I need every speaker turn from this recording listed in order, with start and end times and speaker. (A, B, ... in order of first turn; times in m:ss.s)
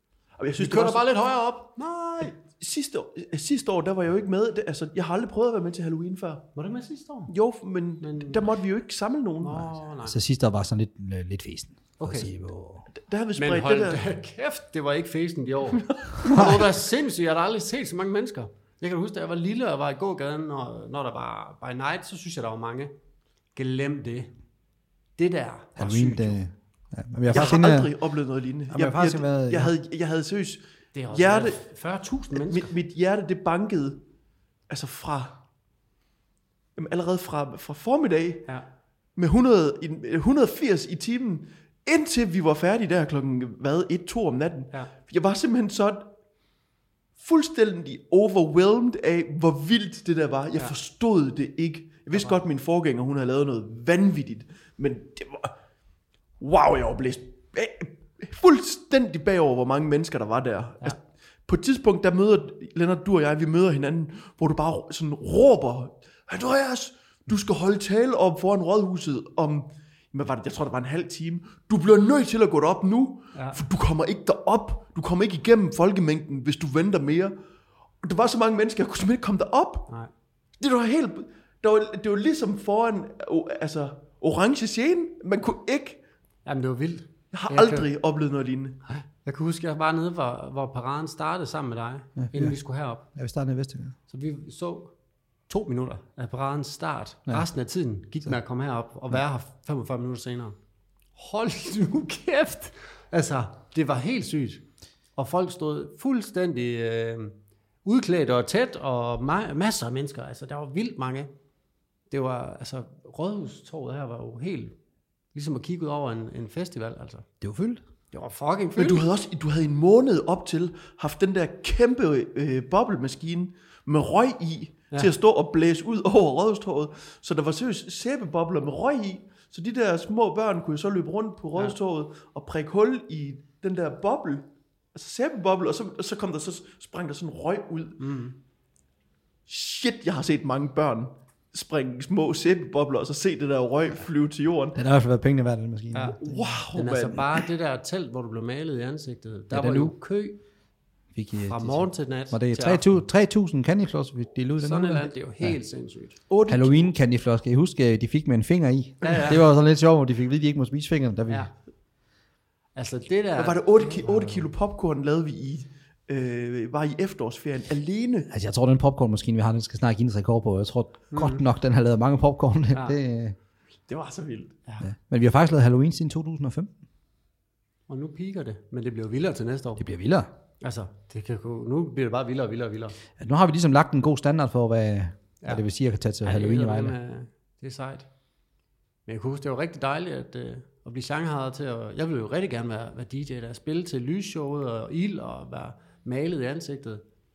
0:00.4-0:01.1 A
0:00.6-0:02.3 B
0:02.2-0:06.5 A
0:06.6-0:07.3 B
0:07.3-0:09.7 A
0:08.0-0:08.4 B
0:09.4-0:10.2 B
0:10.0-0:12.9 C
0:12.0-0:12.3 B
0:13.0-0:14.1 A
0:13.4-0:22.9 B
0:15.8-0:16.4 A
0:16.2-0:16.6 C
0:23.6-0:24.4 B
0:25.2-0:26.4 B
0:25.8-0:27.9 C
0:27.3-0:31.6 A
0:28.7-0:29.7 C
0:31.0-0:32.7 B
0:32.3-0:34.0 A
0:34.7-0:35.4 A
0:36.8-0:38.5 A
0:39.2-0:46.1 A
0:47.2-0:55.5 A
0:56.4-1:17.4 A
1:13.4-1:13.6 B
1:18.0-1:19.9 A
1:20.6-1:26.0 A
1:26.4-1:27.9 B
1:27.3-1:28.8 A
1:28.9-1:33.1 B
1:32.2-1:32.6 C
1:33.2-1:34.0 C
1:34.1-1:34.9 B
1:35.5-1:40.6 B
1:41.2-1:44.6 B
1:45.2-1:51.3 B
1:52.1-1:54.8 B
1:55.3-1:57.3 B
1:57.4-1:57.8 C
1:58.1-1:59.0 B
1:58.8-2:18.1 A
2:18.0-2:18.4 B
2:19.5-2:24.8 A
2:24.8-2:26.5 C
2:26.0-2:26.2 B
2:26.2-2:27.5 A
2:26.7-2:30.4 B
2:29.5-2:29.9 C
2:31.1-2:35.6 C
2:31.4-2:32.9 B
2:34.6-2:36.2 B
2:36.3-2:36.9 A
2:36.5-2:41.5 C
2:39.0-2:39.4 B
2:42.8-2:44.5 B
2:43.4-2:48.3 A
2:48.3-2:53.4 C
2:51.1-2:51.4 B
2:53.9-2:54.6 A
2:54.8-2:56.7 C
2:57.9-2:59.9 B
2:59.8-3:00.3 C
3:00.6-3:03.0 B
3:03.2-3:07.0 C
3:06.2-3:08.1 B
3:09.1-3:17.0 B